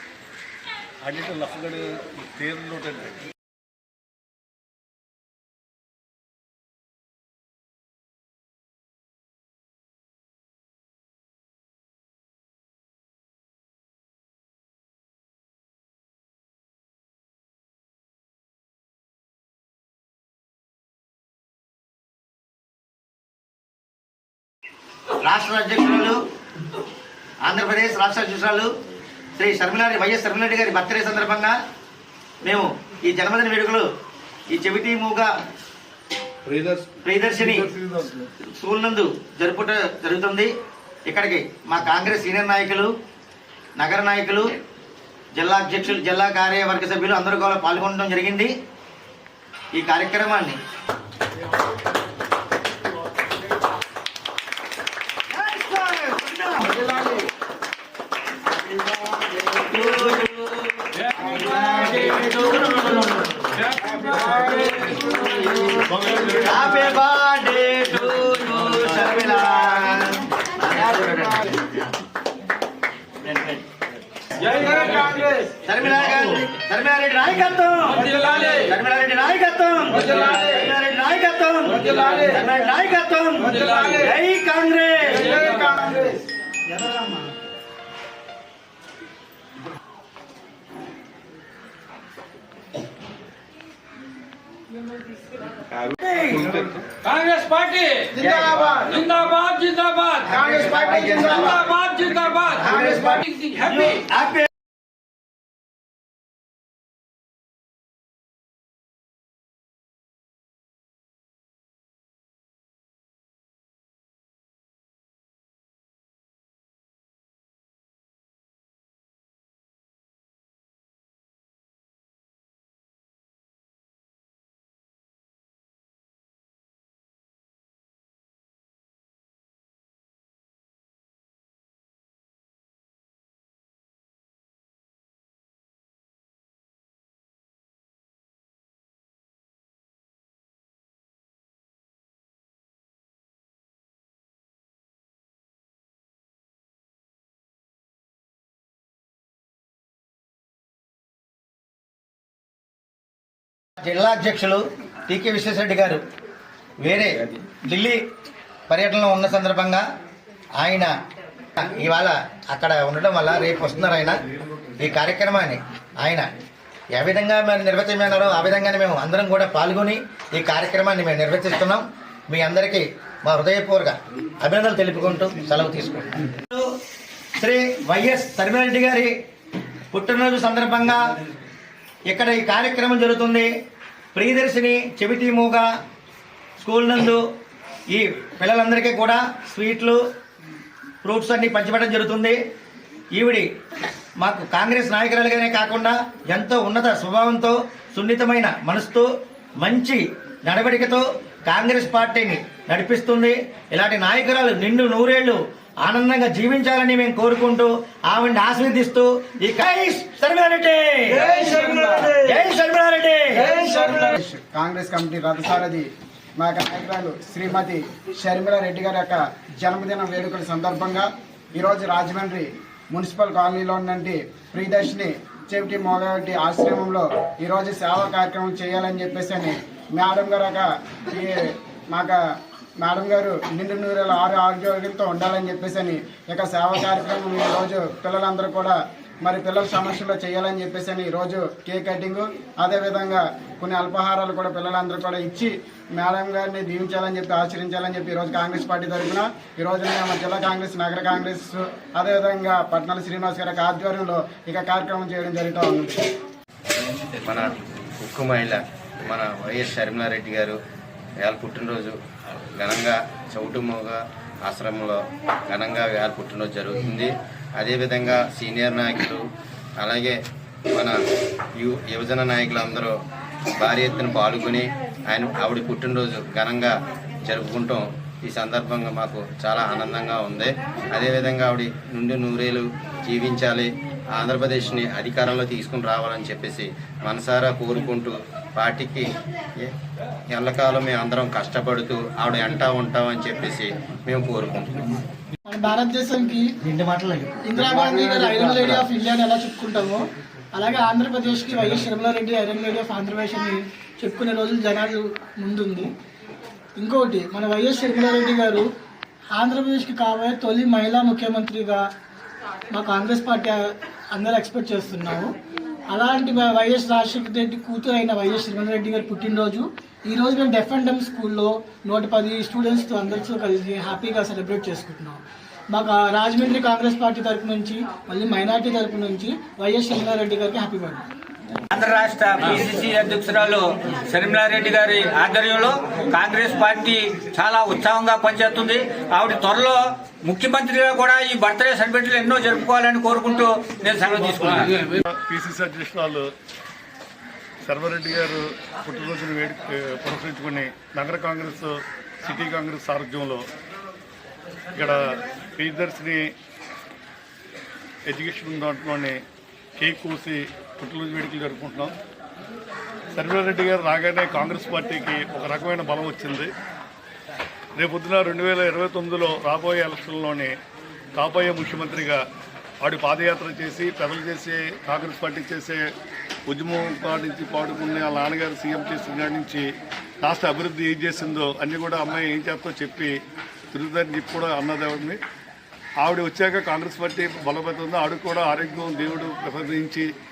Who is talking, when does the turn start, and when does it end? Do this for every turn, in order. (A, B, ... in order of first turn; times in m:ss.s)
0:01.0-0:03.2 A
0:25.2-0:26.2 B
0:27.4-0:28.7 B
0:29.4-0:31.6 B
0:32.4-0:33.9 B
0:34.5-0:35.3 B
0:36.4-0:38.3 A
0:37.0-0:37.7 B
0:38.4-0:40.5 B
0:41.0-0:42.9 B
0:43.8-0:44.5 B
0:45.3-0:48.5 B
0:49.7-0:50.6 B
0:55.3-0:56.9 B
0:58.8-1:03.5 B
1:06.3-1:11.6 B
1:13.3-1:13.6 B
1:14.5-1:15.5 C
1:15.6-1:25.3 B
1:20.0-1:20.4 C
1:21.8-1:22.2 C
1:23.5-1:24.0 C
1:25.1-1:27.3 C
1:35.8-1:36.8 B
1:37.0-1:38.1 D
1:38.2-1:38.8 B
1:38.4-1:38.9 C
1:38.8-1:40.2 D
1:40.2-1:41.7 B
1:40.5-1:41.2 C
1:41.2-1:42.6 D
1:42.6-1:44.5 B
1:43.4-1:43.7 D
2:33.8-2:36.0 B
2:36.8-2:38.0 B
2:38.7-2:39.8 B
2:40.6-2:40.9 B
2:41.6-2:44.2 B
2:44.8-2:46.3 B
2:46.9-2:56.7 B
2:57.4-2:59.1 B
2:59.9-3:01.1 B
3:02.1-3:03.5 B
3:04.1-3:05.7 B
3:06.6-3:07.2 B
3:07.9-3:10.0 B
3:11.0-3:12.4 B
3:13.1-3:13.4 B
3:14.2-3:33.7 B
3:33.6-3:52.2 C
3:52.8-4:16.0 C
4:17.2-4:20.6 E
4:21.2-4:22.0 E
4:22.6-4:29.2 E
4:29.8-4:30.2 E
4:30.7-4:31.0 E
4:31.6-4:33.0 E
4:33.6-4:49.7 E
4:50.3-4:55.0 E
4:55.4-4:56.5 F
4:56.6-4:58.6 B
4:57.4-5:05.9 F
5:06.8-5:08.7 F
5:09.3-5:11.8 F
5:12.7-5:15.3 F
5:15.9-5:25.2 F
5:25.7-5:31.0 F
5:31.7-5:44.9 D
5:45.0-5:46.3 A
5:47.6-5:53.4 A
5:54.8-5:56.3 A
5:58.1-5:59.2 A
5:59.8-6:01.9 A
6:03.1-6:06.5 A
6:07.8-6:10.5 A
6:11.1-6:12.2 A
6:12.8-6:15.8 A
6:16.5-6:19.6 A
6:20.2-6:23.1 A
6:23.7-6:25.2 A
6:26.0-6:30.0 A